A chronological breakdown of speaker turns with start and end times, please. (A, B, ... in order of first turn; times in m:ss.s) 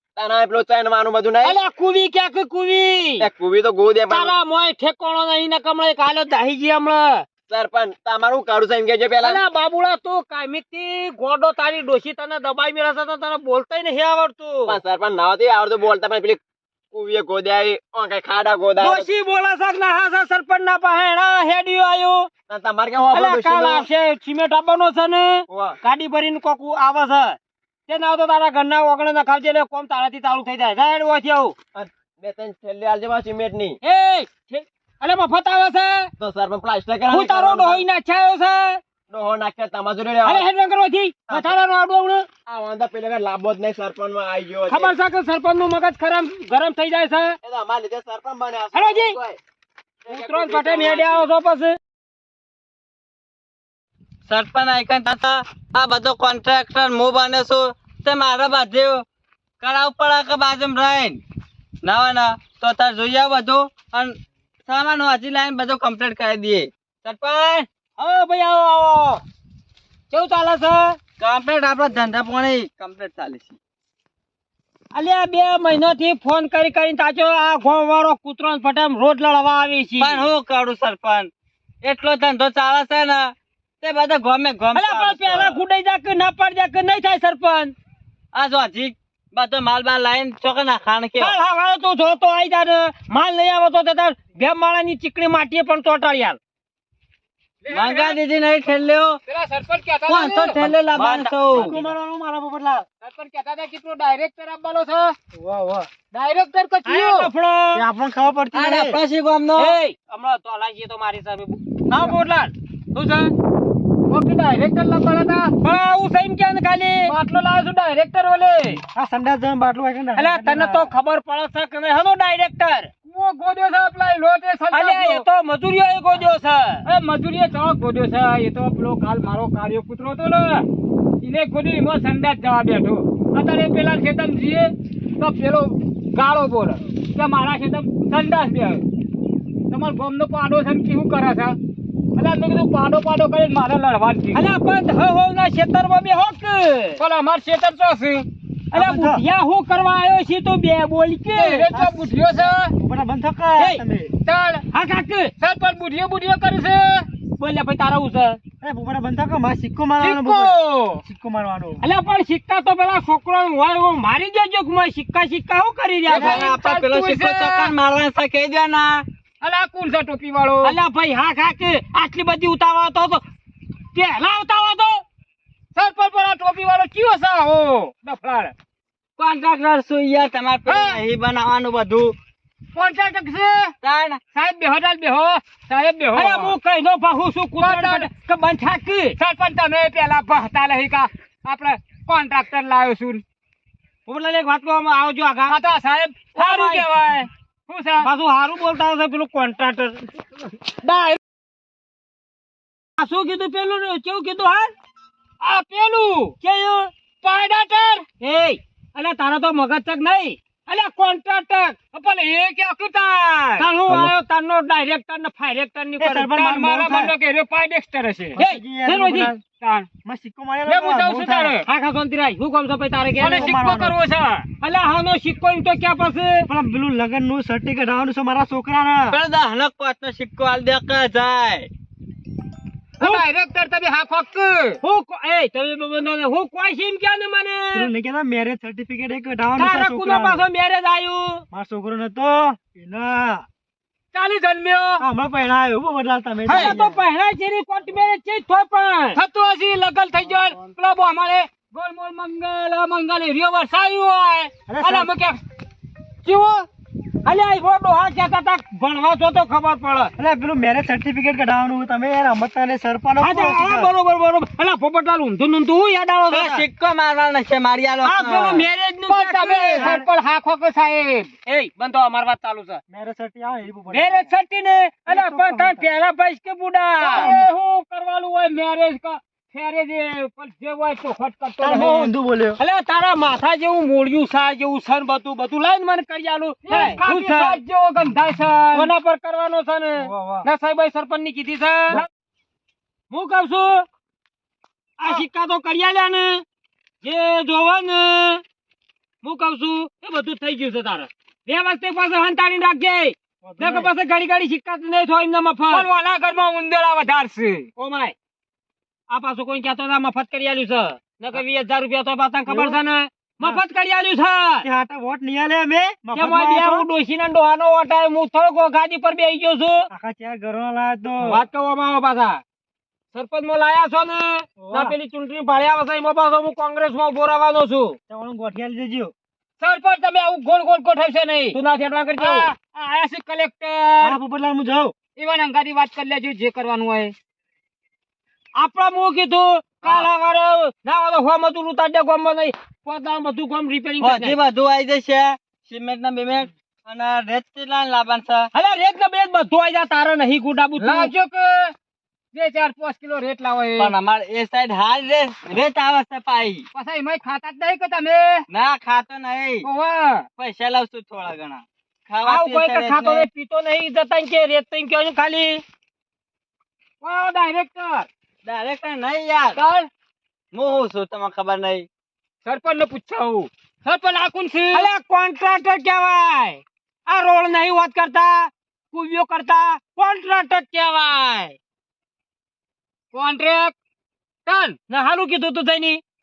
0:00.2-0:01.6 A
0:01.4-0:03.3 B
0:03.2-0:04.3 A
0:04.1-0:07.2 B
0:07.5-0:09.4 A
0:09.2-0:14.8 B
0:14.7-0:16.4 A
0:16.9-0:19.1 A
0:18.8-0:22.3 B
0:22.5-0:23.9 A
0:23.1-0:27.4 B
0:25.5-0:25.8 A
0:27.9-0:31.5 B
0:31.7-0:33.8 A
0:33.8-0:36.1 B
0:36.2-0:37.8 A
0:37.1-0:38.8 B
0:39.1-0:40.5 A
0:40.2-0:42.3 B
0:42.5-0:44.9 A
0:44.7-0:47.4 B
0:47.4-0:49.4 A
0:48.7-0:49.2 B
0:50.0-0:51.3 A
0:50.1-0:51.8 B
0:54.3-0:59.0 C
0:59.6-1:01.2 C
1:01.8-1:04.2 C
1:04.7-1:07.7 C
1:08.0-1:09.2 B
1:10.1-1:11.0 B
1:11.2-1:13.6 C
1:14.9-1:20.3 B
1:20.0-1:21.3 C
1:21.8-1:25.6 C
1:24.7-1:27.7 B
1:28.3-1:31.3 C
1:31.2-1:36.4 B
1:37.6-1:38.2 D
1:37.7-1:39.2 C
1:39.3-1:40.6 D
1:40.1-1:41.8 C
1:41.0-1:42.8 E
1:43.0-1:45.2 D
1:45.3-1:45.9 E
1:46.1-1:47.3 D
1:46.8-1:47.8 B
1:47.7-1:49.0 E
1:48.5-1:49.8 C
1:49.5-1:53.3 B
1:54.1-1:55.5 D
1:55.6-1:57.1 B
1:57.0-1:58.1 D
1:58.1-1:58.8 B
1:58.9-2:00.9 E
2:00.2-2:02.9 B
2:03.0-2:05.2 D
2:04.7-2:06.8 B
2:06.8-2:10.6 D
2:11.2-2:18.8 D
2:19.7-2:21.6 D
2:22.2-2:24.5 D
2:24.3-2:27.0 B
2:27.0-2:28.2 D
2:28.7-2:31.7 B
2:28.7-2:29.2 E
2:31.3-2:32.7 D
2:31.7-2:34.1 E
2:34.2-2:34.6 D
2:34.7-2:35.3 B
2:35.4-2:37.1 D
2:37.4-2:38.4 B
2:38.6-2:41.8 E
2:40.0-2:41.0 D
2:41.8-2:46.5 B
2:46.1-2:49.0 C
2:46.1-2:47.7 D
2:49.4-2:50.8 D
2:50.6-2:53.2 B
2:53.9-2:55.0 B
2:55.7-2:58.5 D
2:59.2-3:02.1 C
3:00.6-3:01.0 D
3:02.7-3:03.7 D
3:03.8-3:04.2 C
3:04.3-3:06.6 D
3:06.1-3:09.2 B
3:07.6-3:08.1 D
3:09.2-3:13.2 D
3:14.0-3:15.6 B
3:15.5-3:18.1 D
3:16.3-3:17.2 B
3:18.0-3:20.1 B
3:20.7-3:21.2 D
3:23.0-3:24.7 B
3:25.4-3:26.3 D
3:26.4-3:26.9 B
3:27.2-3:28.0 D
3:28.2-3:31.8 B
3:31.9-3:33.7 D
3:33.6-3:36.5 B
3:33.9-3:34.1 E
3:36.0-3:37.2 E
3:36.4-3:38.4 D
3:38.4-3:39.4 E
3:38.4-3:39.3 B
3:39.6-3:39.9 D
3:40.0-3:41.6 E
3:40.7-3:41.6 D
3:41.6-3:43.4 B
3:43.2-3:44.0 E
3:43.2-3:44.4 D
3:44.6-3:46.5 B
3:46.5-3:49.2 E
3:49.1-3:51.7 C
3:53.0-3:54.8 D
3:54.8-3:57.9 B
3:57.7-4:00.4 E
3:59.6-4:01.4 B
4:01.5-4:03.4 E
4:04.2-4:05.0 B
4:04.2-4:04.6 D
4:05.0-4:07.0 E
4:06.5-4:09.2 B
4:06.5-4:06.8 D
4:09.1-4:14.2 D
4:14.0-4:14.5 B
4:14.7-4:15.1 E
4:14.8-4:15.4 D
4:16.2-4:16.7 D
4:17.2-4:20.1 B
4:20.2-4:23.9 E
4:23.2-4:26.6 B
4:26.3-4:28.7 C
4:28.0-4:29.9 B
4:29.1-4:31.3 D
4:29.7-4:30.1 E
4:31.4-4:32.8 B
4:32.9-4:34.3 E
4:33.9-4:37.3 B
4:35.1-4:35.9 E
4:37.0-4:42.1 D
4:37.1-4:37.5 E
4:41.6-4:42.6 E
4:42.6-4:47.6 B
4:46.7-4:48.9 D
4:48.7-4:52.0 B
4:50.0-4:50.5 E
4:53.1-4:53.8 B
4:55.0-4:56.4 B
4:57.0-4:58.4 B
4:59.2-5:05.8 B
5:03.4-5:03.9 E
5:05.7-5:07.7 D
5:07.8-5:08.1 B
5:09.1-5:14.7 B
5:12.5-5:12.8 E
5:14.6-5:16.9 E
5:16.1-5:19.9 B
5:19.9-5:21.4 E
5:21.2-5:22.4 B
5:23.1-5:28.0 B
5:24.6-5:24.9 E
5:28.1-5:29.1 E
5:29.6-5:31.6 D
5:31.5-5:32.5 B
5:32.2-5:34.2 D
5:34.0-5:34.9 E
5:35.2-5:37.1 D
5:38.6-5:44.4 B
5:44.0-5:48.5 C
5:48.5-5:51.1 B
5:50.8-5:51.7 D
5:52.3-5:53.9 D
5:53.8-5:56.6 C
5:56.7-5:58.4 D
5:58.5-5:59.6 C
5:59.6-6:00.3 D
6:00.4-6:03.3 C
6:02.2-6:05.6 B
6:07.0-6:08.1 D
6:08.4-6:09.6 C
6:09.5-6:09.9 D
6:10.5-6:11.9 C
6:12.4-6:14.9 D
6:14.7-6:21.6 B
6:23.1-6:23.7 D
6:24.4-6:24.8 D
6:24.9-6:26.0 B